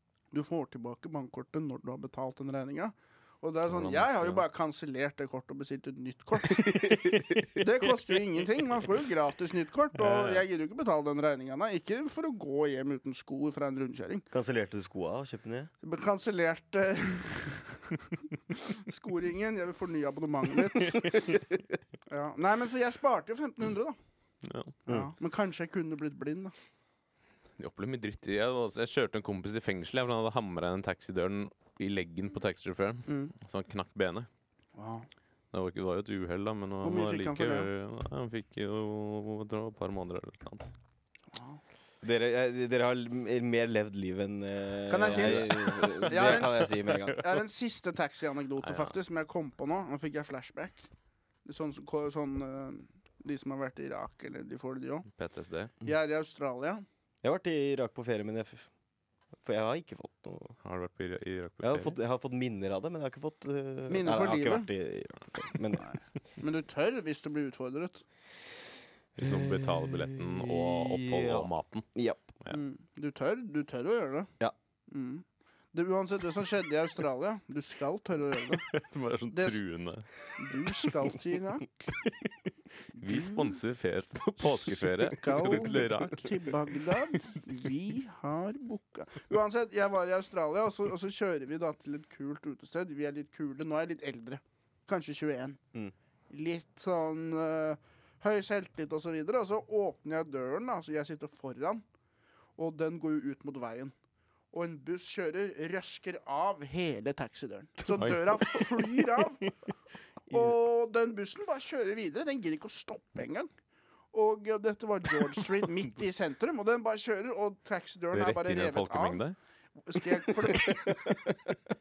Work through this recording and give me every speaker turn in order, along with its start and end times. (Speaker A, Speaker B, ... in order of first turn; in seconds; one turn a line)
Speaker A: 0.3-14.2
Speaker B: 3.7-4.4
Speaker B: 6.5-7.6
Speaker B: 10.0-10.4
Speaker C: 14.3-15.7
Speaker A: 15.8-21.4
Speaker A: 22.1-23.9
Speaker B: 24.4-24.7
Speaker A: 24.9-26.5
Speaker B: 27.6-34.3
Speaker A: 33.1-33.3
Speaker A: 34.7-35.1
Speaker B: 35.5-40.7
Speaker A: 36.8-37.7
Speaker A: 41.3-41.6
Speaker C: 42.0-47.2
Speaker A: 44.9-50.9
Speaker B: 45.1-47.2
Speaker B: 48.6-48.9
Speaker A: 51.4-55.1
Speaker B: 55.1-55.7
Speaker A: 55.8-56.8
Speaker C: 57.2-58.7
Speaker C: 59.4-60.5
Speaker B: 60.6-62.0
Speaker C: 61.6-65.8
Speaker A: 63.9-64.7
Speaker A: 65.8-68.0
Speaker C: 69.2-72.3
Speaker B: 69.2-71.8
Speaker A: 72.5-74.3
Speaker A: 74.9-78.7
Speaker B: 78.6-80.9
Speaker A: 79.3-79.6
Speaker A: 80.4-81.9
Speaker B: 82.0-87.4
Speaker A: 83.0-83.5
Speaker A: 85.1-95.6
Speaker A: 96.3-101.8
Speaker A: 102.6-103.9
Speaker A: 104.5-109.4
Speaker B: 108.0-109.5
Speaker A: 110.3-113.5
Speaker A: 114.1-119.2
Speaker B: 118.1-119.3
Speaker A: 119.8-121.2